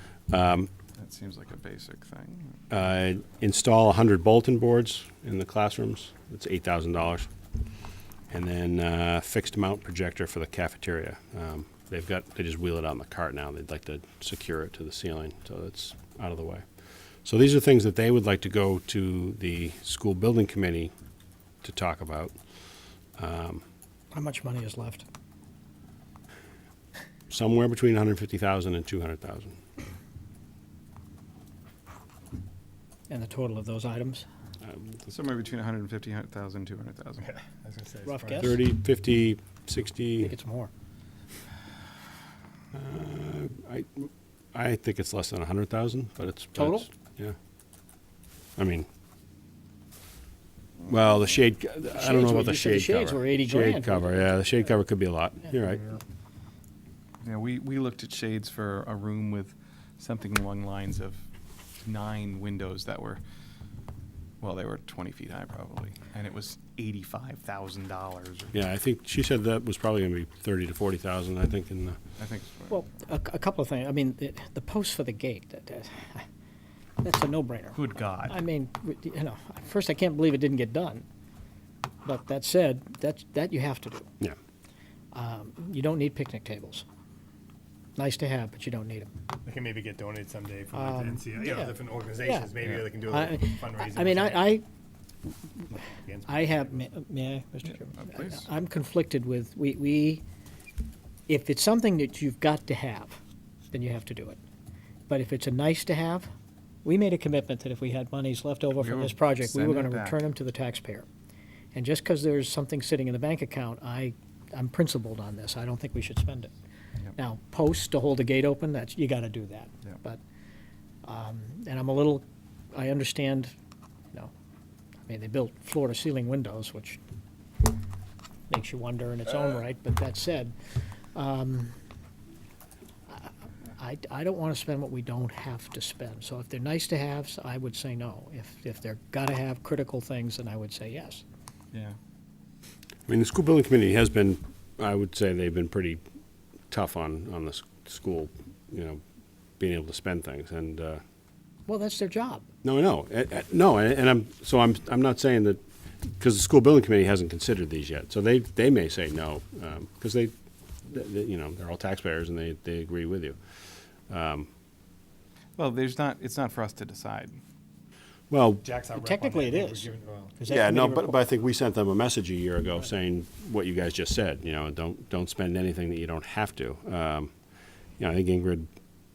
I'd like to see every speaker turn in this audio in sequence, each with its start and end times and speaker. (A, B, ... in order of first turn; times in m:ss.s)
0:00.3-0:00.7 A
0:01.0-0:02.7 B
0:02.7-0:07.3 A
0:08.3-0:16.6 A
0:17.2-0:20.9 A
0:21.6-0:22.3 A
0:23.2-0:23.6 A
0:24.1-0:25.1 C
0:27.3-0:29.6 A
0:33.1-0:34.3 C
0:34.6-0:35.1 A
0:35.1-0:37.3 B
0:37.2-0:38.6 D
0:38.1-0:38.6 C
0:38.4-0:40.3 A
0:40.2-0:40.7 C
0:42.7-0:47.4 A
0:46.6-0:46.9 C
0:48.6-0:48.9 A
0:50.8-0:56.0 A
0:51.9-0:54.1 C
0:57.2-1:01.2 B
1:01.8-1:03.2 B
1:04.4-1:08.6 B
1:08.5-1:12.0 A
1:12.2-1:12.8 B
1:12.7-1:16.2 C
1:17.0-1:21.0 C
1:17.8-1:18.4 B
1:22.0-1:24.1 C
1:25.1-1:26.8 C
1:28.0-1:29.1 C
1:29.4-1:34.5 D
1:30.7-1:34.6 C
1:35.8-1:36.8 D
1:36.3-1:40.2 C
1:37.6-1:38.5 B
1:41.3-1:43.2 C
1:43.7-1:44.4 C
1:45.1-1:46.3 C
1:46.8-1:51.1 C
1:48.8-1:50.2 B
1:51.7-1:56.5 C
1:57.2-2:00.2 C
2:01.0-2:03.5 C
2:05.1-2:07.0 C
2:08.5-2:10.6 C
2:11.1-2:11.7 C
2:13.1-2:21.2 C
2:23.1-2:26.0 A
2:26.7-2:29.0 A
2:29.6-2:31.0 A
2:31.7-2:32.5 C
2:32.6-2:40.3 A
2:40.9-2:43.4 A
2:44.1-2:44.5 A
2:45.6-2:47.4 B
2:48.3-2:48.6 A
2:48.6-2:50.3 D
2:49.0-2:51.2 C
2:50.5-2:57.3 A
2:58.0-2:58.7 A